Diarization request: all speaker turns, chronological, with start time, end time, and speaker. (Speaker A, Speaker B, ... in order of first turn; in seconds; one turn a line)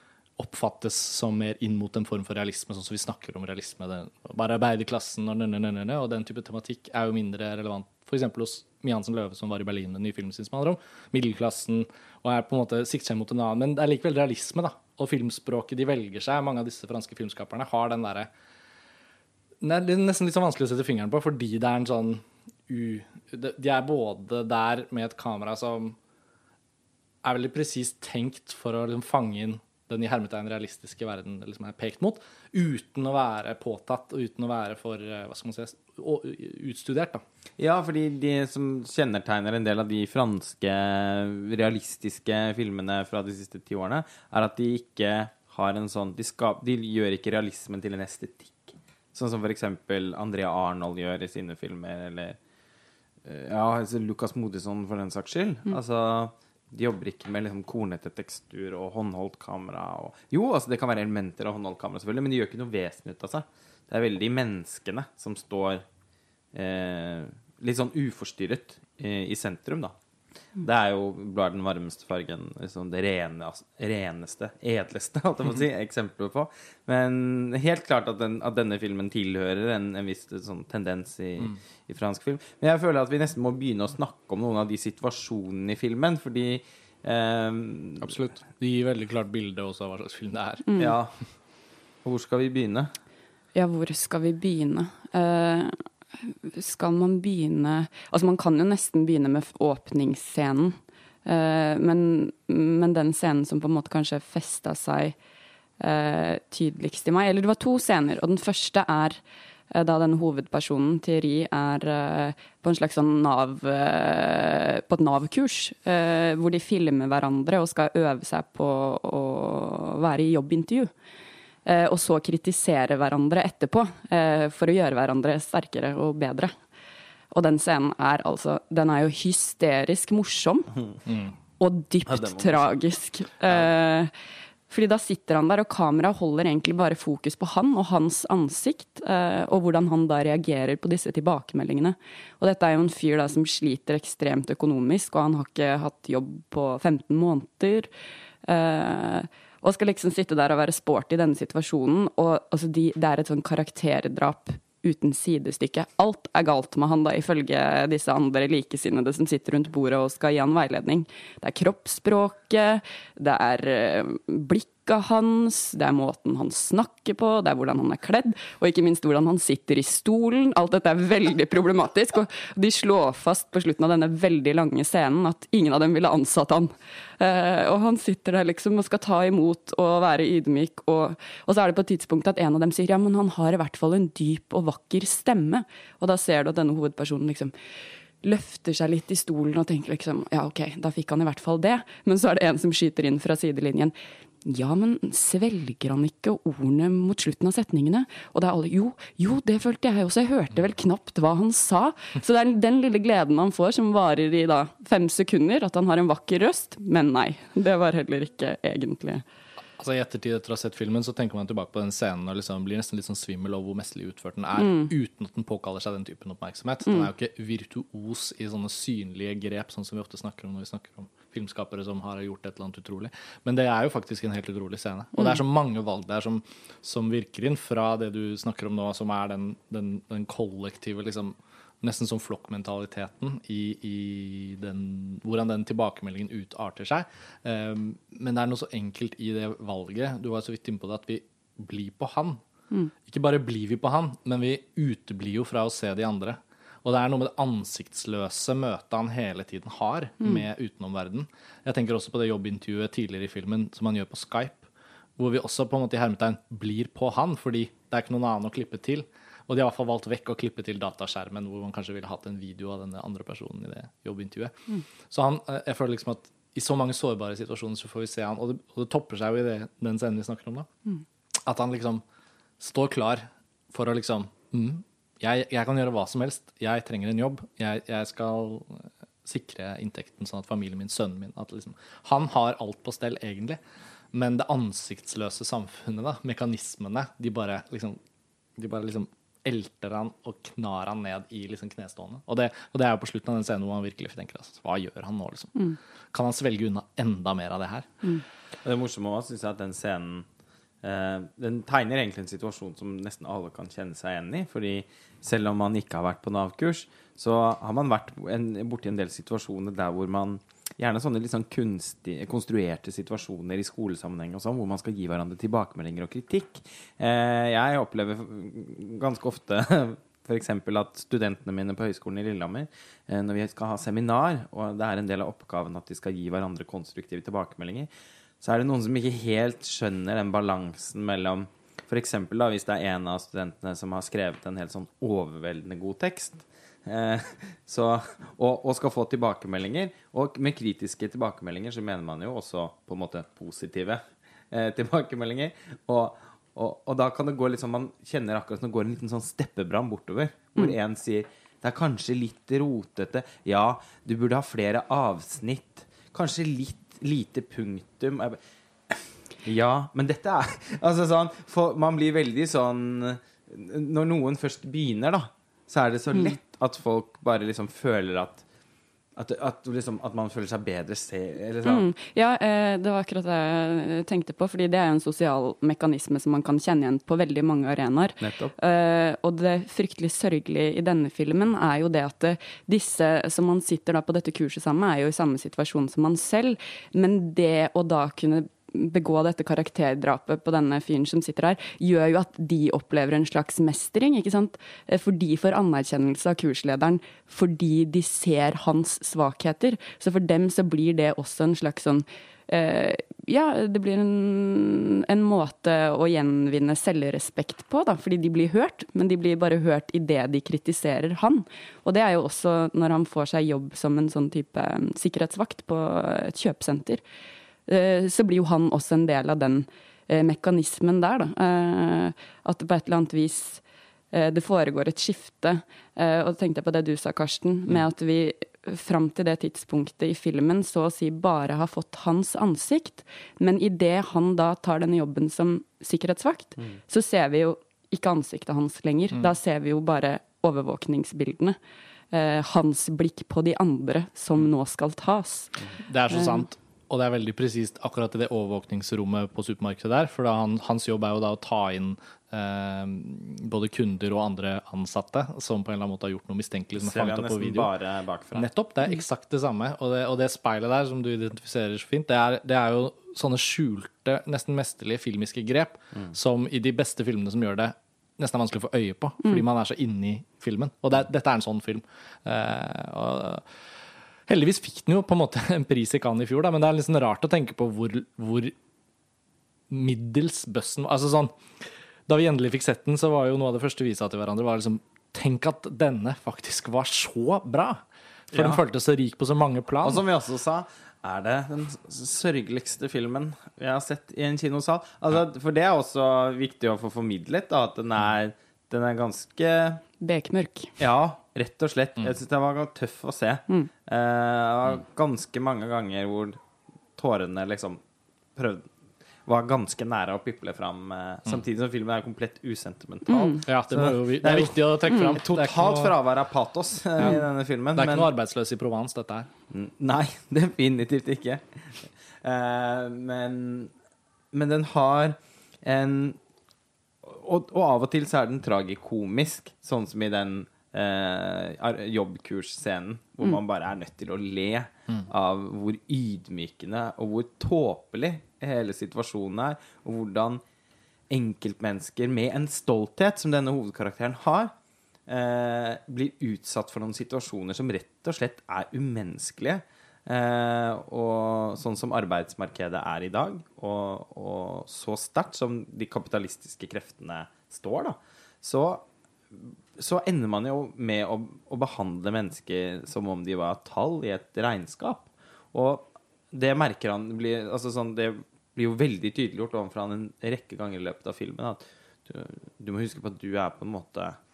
Speaker A: 0.4-18.3
Speaker A: 19.6-26.0
Speaker A: 27.2-37.2
Speaker B: 37.6-52.4
Speaker B: 53.2-65.8
Speaker B: 66.5-69.9
Speaker B: 70.6-88.2
Speaker A: 88.0-90.7
Speaker C: 90.7-91.0
Speaker B: 90.8-91.2
Speaker B: 92.0-92.9
Speaker C: 93.5-105.2
Speaker C: 105.8-120.9
Speaker C: 121.6-126.5
Speaker C: 127.3-130.7
Speaker A: 131.1-131.3
Speaker C: 131.6-134.1
Speaker B: 132.1-132.7
Speaker C: 134.7-147.9
Speaker C: 148.4-187.5
Speaker C: 188.2-193.9
Speaker C: 194.4-209.2
Speaker A: 209.8-242.4
Speaker C: 214.6-214.9
Speaker A: 243.0-264.5
Speaker A: 265.1-270.7
Speaker A: 271.4-272.0
Speaker A: 272.6-283.6
Speaker A: 284.1-288.0
Speaker A: 288.6-295.6
Speaker A: 296.1-298.0
Speaker B: 298.6-300.2
Speaker B: 300.8-327.9
Speaker B: 328.4-368.4
Speaker B: 369.2-371.9
Speaker C: 371.6-417.0
Speaker B: 378.2-378.5
Speaker C: 417.7-441.6
Speaker C: 442.1-446.4
Speaker A: 445.8-457.7
Speaker B: 456.8-458.5
Speaker A: 458.3-473.4
Speaker A: 474.3-478.5
Speaker A: 479.7-481.4
Speaker A: 482.1-490.0
Speaker B: 488.3-488.6
Speaker B: 489.8-499.8
Speaker C: 500.0-500.7
Speaker B: 500.8-506.4
Speaker B: 507.0-507.8
Speaker B: 508.4-508.7
Speaker B: 509.2-518.1
Speaker C: 513.1-513.4
Speaker A: 513.5-515.9
Speaker C: 514.9-515.1
Speaker A: 517.7-519.3
Speaker B: 519.5-523.7
Speaker B: 524.3-526.2
Speaker B: 527.0-540.4
Speaker B: 541.1-544.5
Speaker B: 545.1-574.2